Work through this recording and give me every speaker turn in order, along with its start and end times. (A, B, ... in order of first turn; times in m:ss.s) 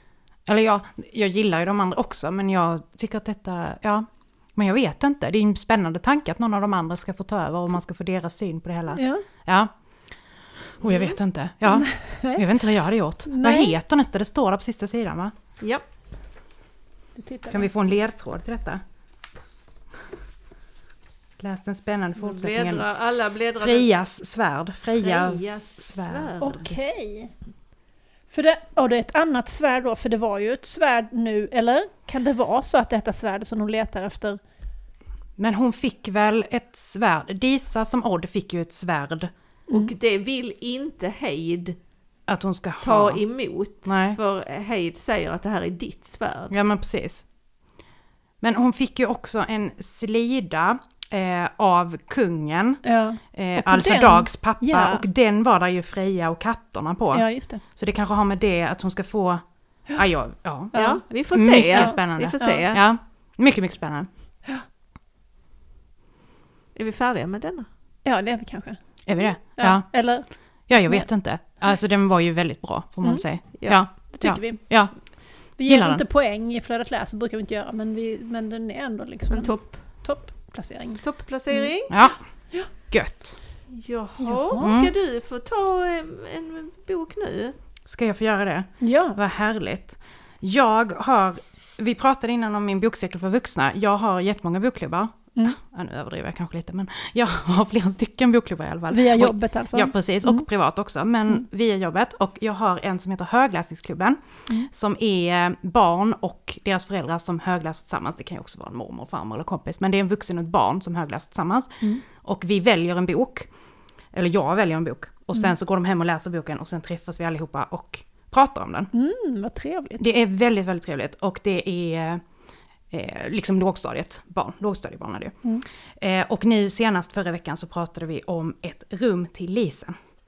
0:00.4-0:09.7 A
0:08.9-0:09.2 B
0:10.8-0:15.3 A
0:11.7-0:12.5 B
0:13.2-0:13.7 B
0:17.2-0:17.7 B
0:17.5-0:18.8 A
0:21.4-0:22.8 A
0:22.2-0:23.9 C
0:23.5-0:26.3 A
0:24.9-0:26.7 C
0:26.4-0:27.3 B
0:28.3-0:34.4 B
0:35.4-0:39.3 A
0:39.7-0:41.8 C
0:42.3-0:43.2 A
0:42.8-0:46.5 C
0:43.8-0:44.2 A
0:46.5-0:47.2 A
0:48.4-1:04.1 A
0:52.8-0:55.0 B
0:57.1-0:57.6 B
1:00.7-1:01.0 B
1:00.7-1:02.8 C
1:01.6-1:02.6 B
1:06.8-1:07.7 C
1:08.0-1:10.3 B
1:09.0-1:10.0 A
1:10.7-1:15.0 A
1:13.0-1:14.8 B
1:15.6-1:21.7 B
1:15.6-1:16.0 A
1:19.3-1:19.8 C
1:21.0-1:22.0 C
1:21.9-1:23.4 A
1:23.7-1:27.5 C
1:24.2-1:24.7 B
1:24.6-1:24.9 A
1:27.8-1:53.5 A
1:28.8-1:29.2 B
1:38.9-1:40.4 B
1:54.1-1:58.9 A
1:58.9-2:00.0 B
2:00.0-2:02.2 A
2:02.9-2:05.4 A
2:06.0-2:09.9 A